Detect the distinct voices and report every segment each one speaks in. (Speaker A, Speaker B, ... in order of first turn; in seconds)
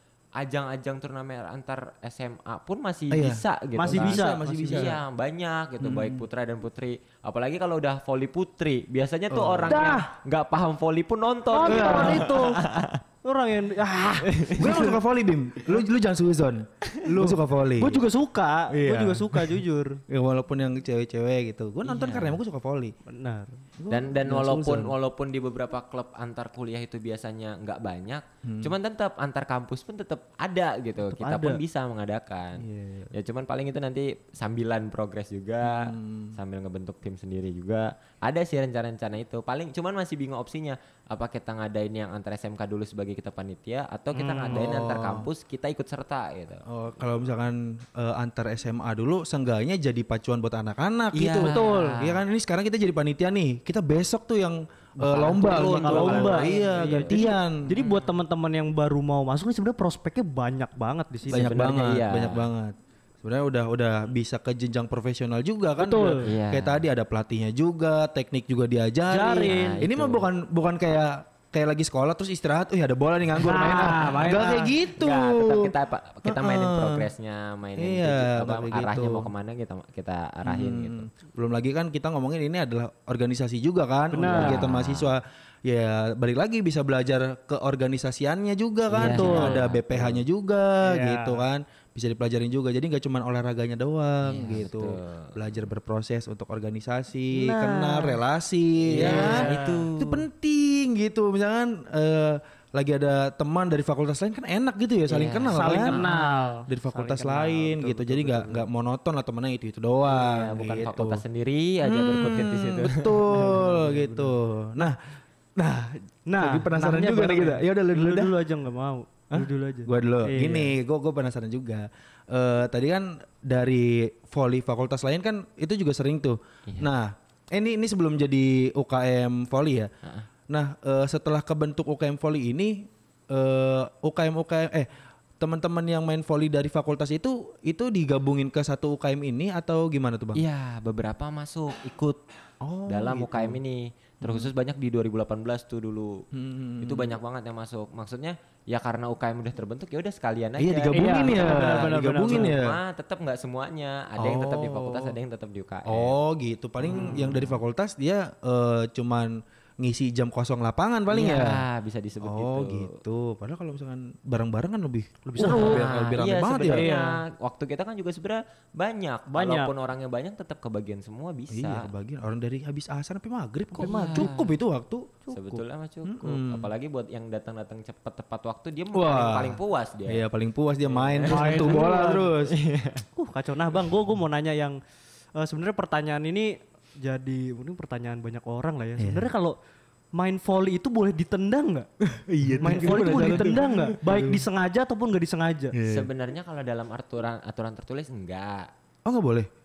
Speaker A: 0.4-13.0, 14.3-14.8, 21.8-22.4, 23.9-46.6, 51.1-52.2, 55.0-58.2, 61.3-62.5, 66.2-66.8, 69.5-70.2, 74.9-81.1, 84.3-85.1, 88.9-90.2, 94.2-95.4, 98.9-100.2, 105.1-106.2, 110.1-113.4, 140.3-142.2, 142.9-146.2, 146.8-156.1, 156.8-157.4, 161.1-163.0, 165.4-171.9, 173.8-174.5, 175.3-180.2, 180.8-181.9, 182.4-183.0, 195.8-198.7
Speaker B: 3.1-5.0, 5.8-6.2, 9.3-9.8, 11.6-12.6, 14.6-18.0, 18.7-22.9, 23.8-24.9, 28.4-28.7, 32.6-33.1, 35.6-36.3, 44.5-45.3, 46.6-57.8, 61.3-75.7, 76.2-77.1, 77.8-79.3, 80.4-106.0, 106.7-111.2, 111.8-115.0, 115.6-118.3, 119.3-129.9, 130.5-140.4, 142.6-143.6, 144.2-144.5, 146.3-147.2, 150.6-152.8, 154.2-155.1, 155.9-161.6, 162.2-166.9, 171.5-175.2, 176.0-176.7, 178.9-182.5, 189.0-189.3, 192.0-194.4, 195.7-196.1, 199.1-199.5
Speaker C: 3.8-4.9, 9.7-10.1, 11.5-12.6, 13.2-15.0, 17.1-20.0, 23.1-23.6, 31.0-31.6, 44.1-44.6, 51.4-52.0, 55.4-61.5, 65.8-66.3, 69.1-69.8, 73.4-74.7, 84.1-84.7, 89.0-89.7, 90.8-91.4, 97.3-98.2, 98.9-99.9, 105.5-108.6, 113.3-114.9, 116.3-120.7, 150.9-152.6, 156.8-157.5, 165.2-165.9, 166.7-167.2, 169.3-169.7, 173.8-174.3, 175.3-175.6, 181.2-182.3, 183.2-184.8, 185.3-189.6, 190.2-191.9, 192.6-195.8